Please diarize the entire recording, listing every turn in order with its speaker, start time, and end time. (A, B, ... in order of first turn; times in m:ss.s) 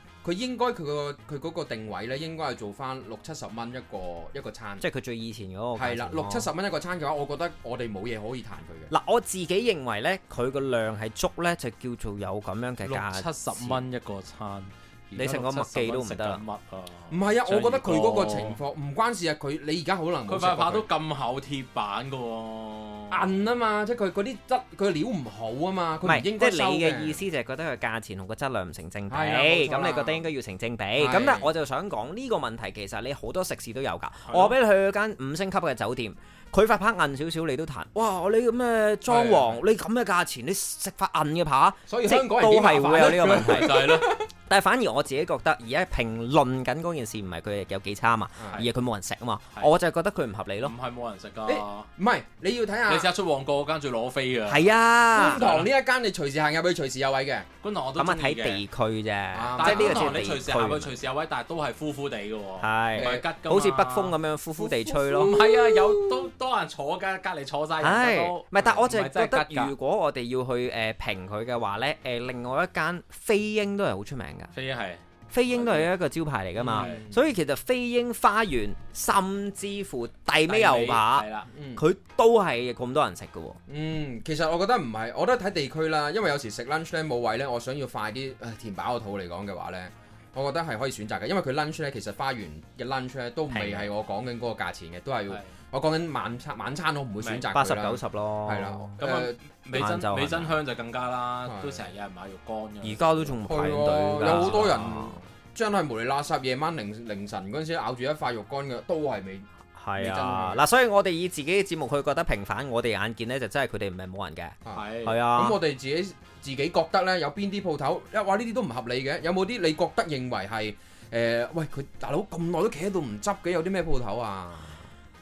0:00.2-0:04.8 A
0:04.8-0:06.5 B
0:05.8-0:08.9 A
0:08.9-0:13.8 B
0:12.8-0:18.6 C
0:15.2-0:16.4 B
0:17.1-0:20.9 A
0:20.3-0:23.3 C
0:23.1-0:27.2 A
0:26.0-0:43.9 B
0:29.1-0:30.2 A
0:31.0-0:31.5 A
0:34.3-0:34.6 C
0:39.1-0:39.6 A
0:41.9-0:44.3 A
0:43.0-0:44.1 C
0:44.5-0:50.7 B
0:48.4-0:48.6 A
0:50.6-0:51.9 C
0:51.5-0:53.1 A
0:52.9-0:55.7 C
0:54.5-0:55.4 B
0:55.2-0:57.5 A
0:57.6-0:58.6 C
0:58.0-1:00.9 B
0:59.3-1:00.3 A
0:59.6-1:04.2 C
1:02.6-1:05.4 B
1:03.0-1:03.3 A
1:04.6-1:06.3 A
1:05.2-1:09.7 C
1:07.8-1:14.5 B
1:14.5-1:15.9 C
1:15.3-1:23.6 B
1:16.6-1:17.2 A
1:16.7-1:17.0 C
1:20.5-1:21.5 C
1:21.5-1:21.8 A
1:23.7-1:39.4 A
1:33.5-1:33.9 B
1:37.2-1:37.5 C
1:37.5-1:39.0 B
1:39.0-1:43.4 C
1:39.7-1:40.6 B
1:41.5-1:41.8 A
1:42.8-1:45.2 B
1:43.5-1:50.6 A
1:44.2-1:44.7 C
1:49.8-1:55.6 B
1:54.6-2:04.9 A
1:54.7-1:55.2 C